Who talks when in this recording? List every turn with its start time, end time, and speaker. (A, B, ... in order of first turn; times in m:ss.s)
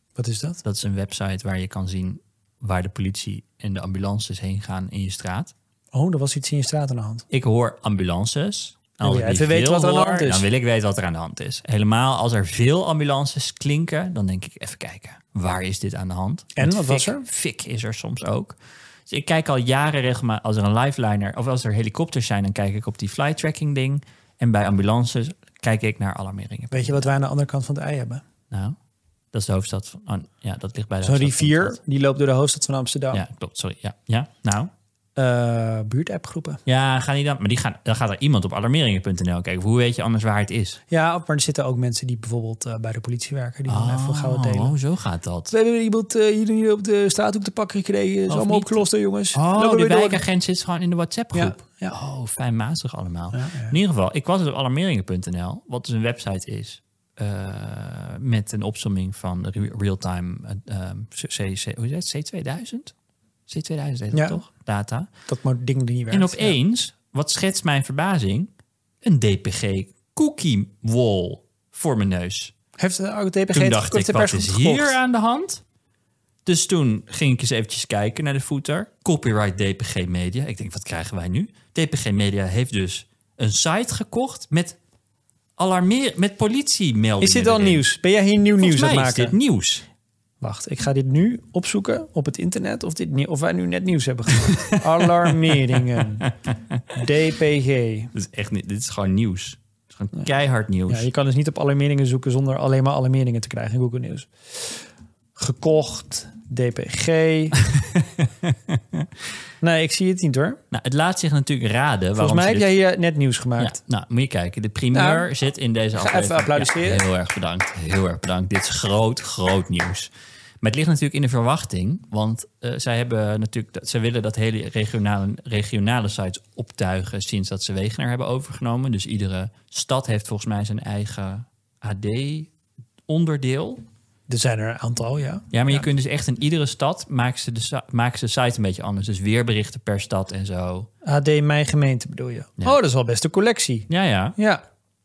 0:00.2-0:00.6 A
0:00.6-0:05.5 B
0:05.9-0:07.2 A
0:07.3-0:18.6 B
0:09.0-0:10.5 A
0:16.6-0:17.3 A
0:19.1-0:27.1 B
0:26.7-0:28.2 A
0:28.5-0:28.8 B
0:29.3-0:31.8 B
0:31.0-0:33.2 A
0:33.1-0:34.7 B
0:35.2-0:36.6 A
0:36.7-0:40.8 B
0:40.9-0:44.8 A
0:43.7-0:45.5 B
0:45.5-0:50.2 A
0:48.3-1:02.9 B
0:51.3-0:52.0 A
0:53.3-0:53.8 A
1:03.5-1:05.1 B
1:04.1-1:04.4 A
1:05.3-1:06.6 A
1:06.1-1:08.5 B
1:09.0-1:12.5 B
1:12.8-1:15.0 A
1:13.5-1:15.6 B
1:16.4-1:24.8 B
1:25.6-1:27.8 B
1:27.2-1:29.4 A
1:28.6-1:29.8 B
1:30.4-1:36.3 A
1:34.4-1:36.0 B
1:36.9-1:38.1 A
1:38.1-1:41.1 B
1:40.9-1:44.8 A
1:45.4-1:47.6 A
1:47.7-1:49.1 B
1:49.6-1:50.6 A
1:50.7-1:52.7 B
1:52.2-1:53.8 A
1:53.6-2:00.1 B
1:54.9-1:55.3 A
1:56.0-1:57.0 A
2:00.6-2:12.5 B
2:13.1-2:13.8 B
2:14.3-2:15.9 A
2:15.5-2:20.9 B
2:21.0-2:24.6 A
2:23.9-2:24.4 B